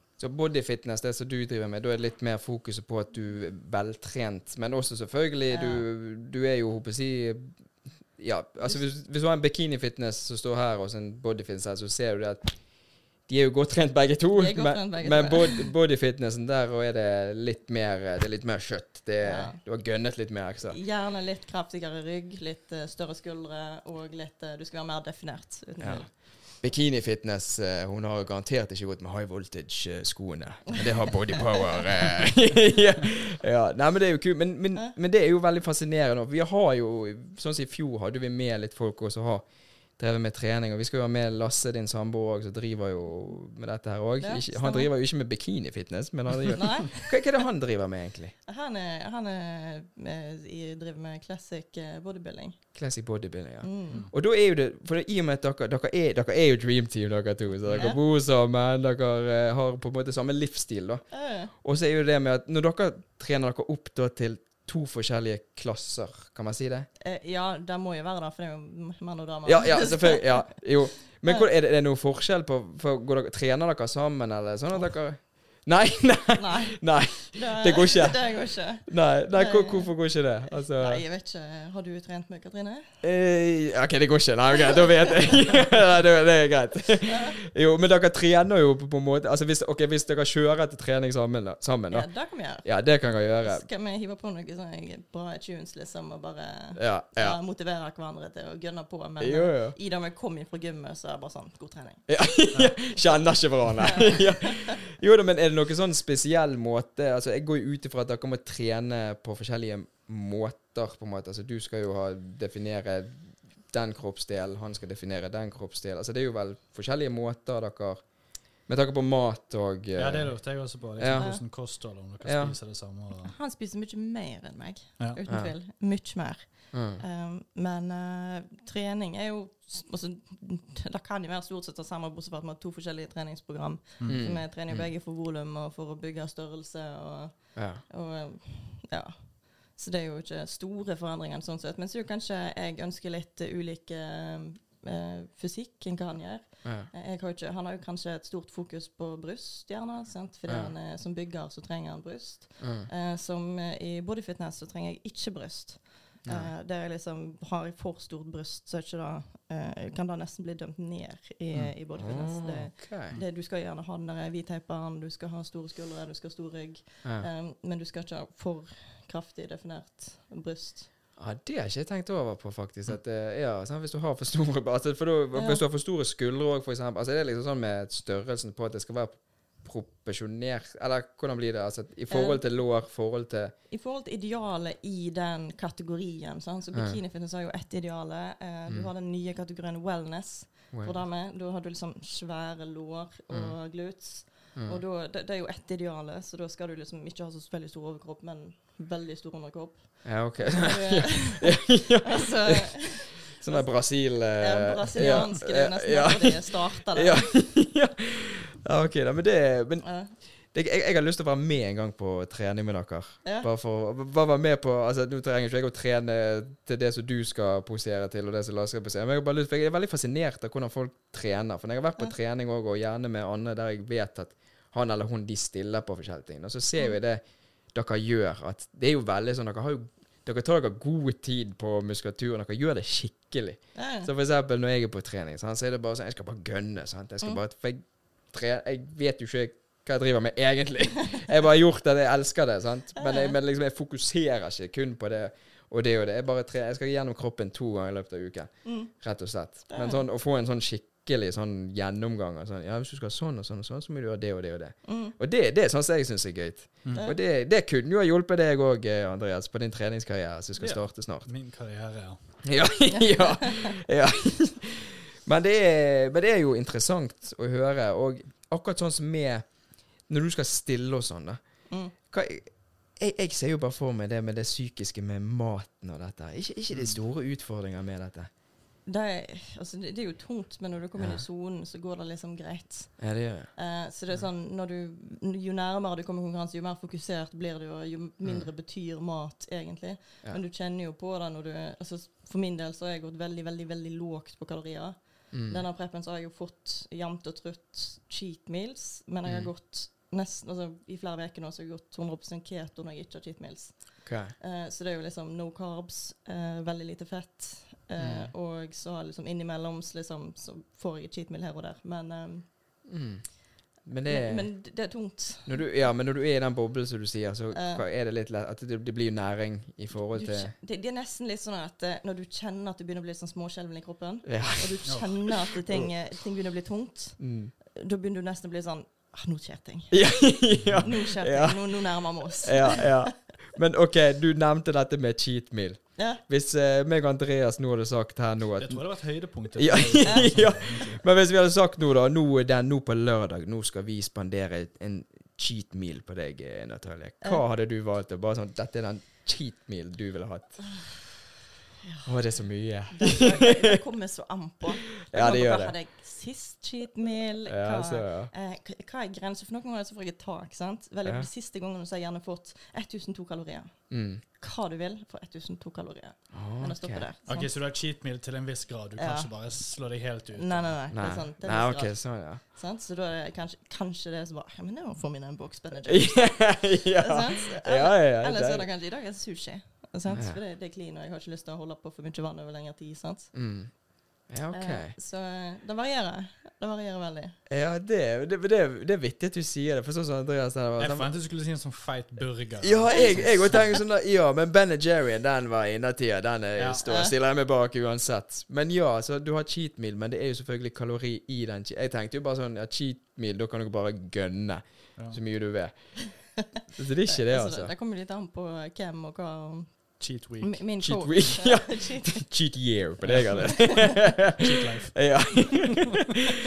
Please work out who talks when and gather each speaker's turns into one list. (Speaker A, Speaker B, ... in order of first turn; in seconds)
Speaker A: 0.2-20.8, 25.8-48.3, 52.7-66.9, 69.4-81.0, 83.0-93.7, 96.8-97.4, 99.2-99.8, 102.1-122.5, 125.2-125.6, 126.7-127.0, 134.0-134.9, 137.5-137.8, 146.6-146.9, 150.5-150.7, 152.6-152.9, 156.2-156.5, 161.5-163.2, 167.0-167.3, 171.2-183.5, 186.7-187.0, 190.7-191.0, 193.3-193.8, 194.5-194.8, 200.0-261.3, 262.4-278.3, 281.0-281.2, 283.0-283.6, 288.2-288.5, 295.3-295.6, 299.2-299.5, 304.0-304.3, 308.0-308.3, 312.9-314.9, 315.4-320.5, 324.2-326.0, 327.2-327.5, 329.9-351.1, 352.0-353.5, 355.1-355.8, 357.4-358.3, 361.0-361.3, 363.9-364.2, 366.3-367.1, 370.9-372.4, 375.9-378.7, 380.1-380.4, 383.3-384.9, 387.5-391.1, 392.6-407.7, 410.8-414.4, 414.9-416.0
Speaker B: 5.5-5.8, 14.3-15.7, 19.2-19.6, 20.7-26.1, 44.2-44.9, 46.5-47.2, 48.5-52.7, 53.6-54.1, 57.7-58.0, 61.1-61.5, 67.0-71.5, 76.3-82.9, 87.1-87.3, 91.9-102.1, 103.9-104.2, 121.1-121.4, 123.2-170.9, 175.3-175.6, 182.1-182.6, 183.7-207.2, 209.8-210.2, 233.7-234.1, 242.9-243.3, 248.6-250.0, 254.8-255.2, 262.9-263.8, 271.7-271.9, 278.8-312.5, 314.1-315.7, 317.5-317.8, 320.1-333.0, 335.9-336.2, 340.0-340.6, 351.8-367.6, 369.0-383.5, 384.5-387.4, 393.1-393.6, 396.9-397.1, 407.1-412.4
Speaker C: 57.6-57.9, 120.0-123.3, 134.0-134.3, 256.8-257.1, 260.6-262.4, 338.6-341.0, 367.2-370.8, 390.8-393.7, 396.6-396.8, 404.9-405.2, 410.0-410.6, 413.0-415.5